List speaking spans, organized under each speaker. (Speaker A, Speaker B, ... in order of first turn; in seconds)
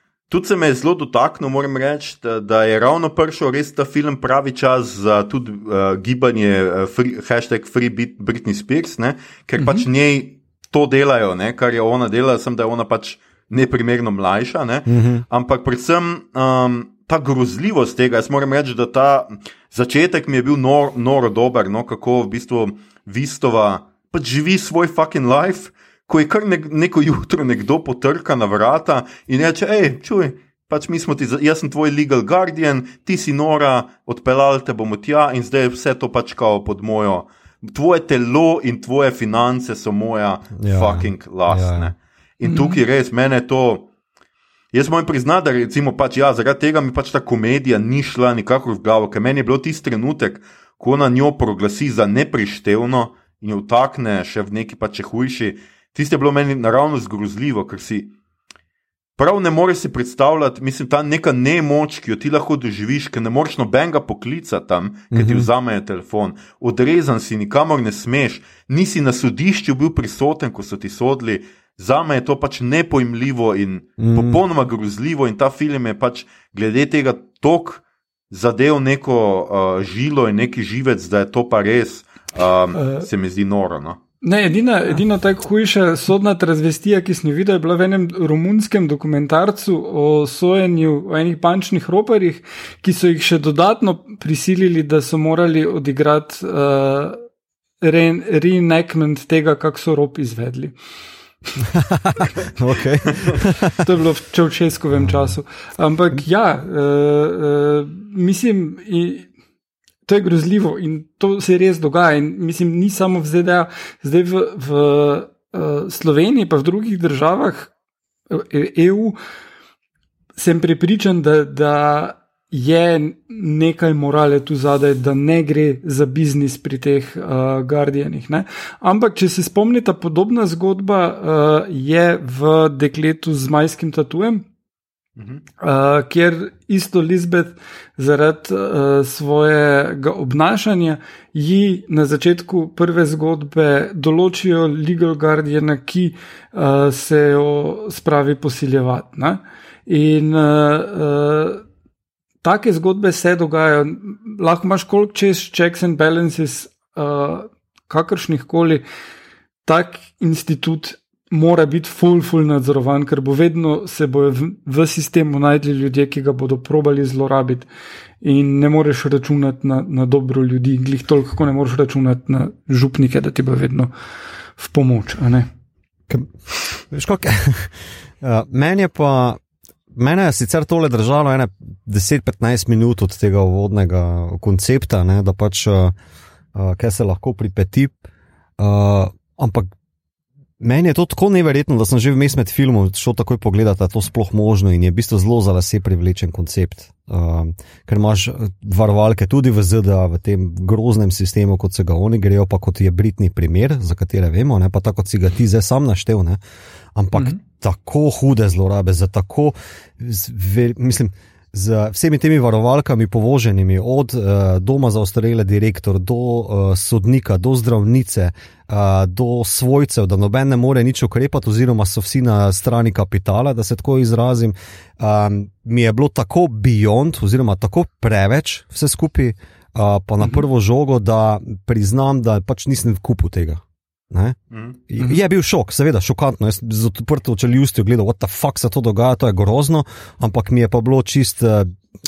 Speaker A: 0.3-43.9, 44.7-58.1, 59.2-84.0, 234.5-234.8
Speaker B: 9.6-9.9, 42.4-42.8, 82.8-83.1, 84.2-97.2, 97.8-100.8, 103.8-109.3, 110.1-117.7, 118.3-119.2, 120.4-134.4, 135.6-151.6, 152.4-158.8, 159.7-167.7, 168.2-173.9, 174.6-175.5
Speaker C: 14.9-15.2, 40.6-41.9, 65.1-65.5, 74.0-74.4, 101.7-103.8, 105.0-105.3, 176.9-179.4, 179.9-185.9, 186.6-188.0, 188.6-189.7, 190.6-206.4, 206.9-241.8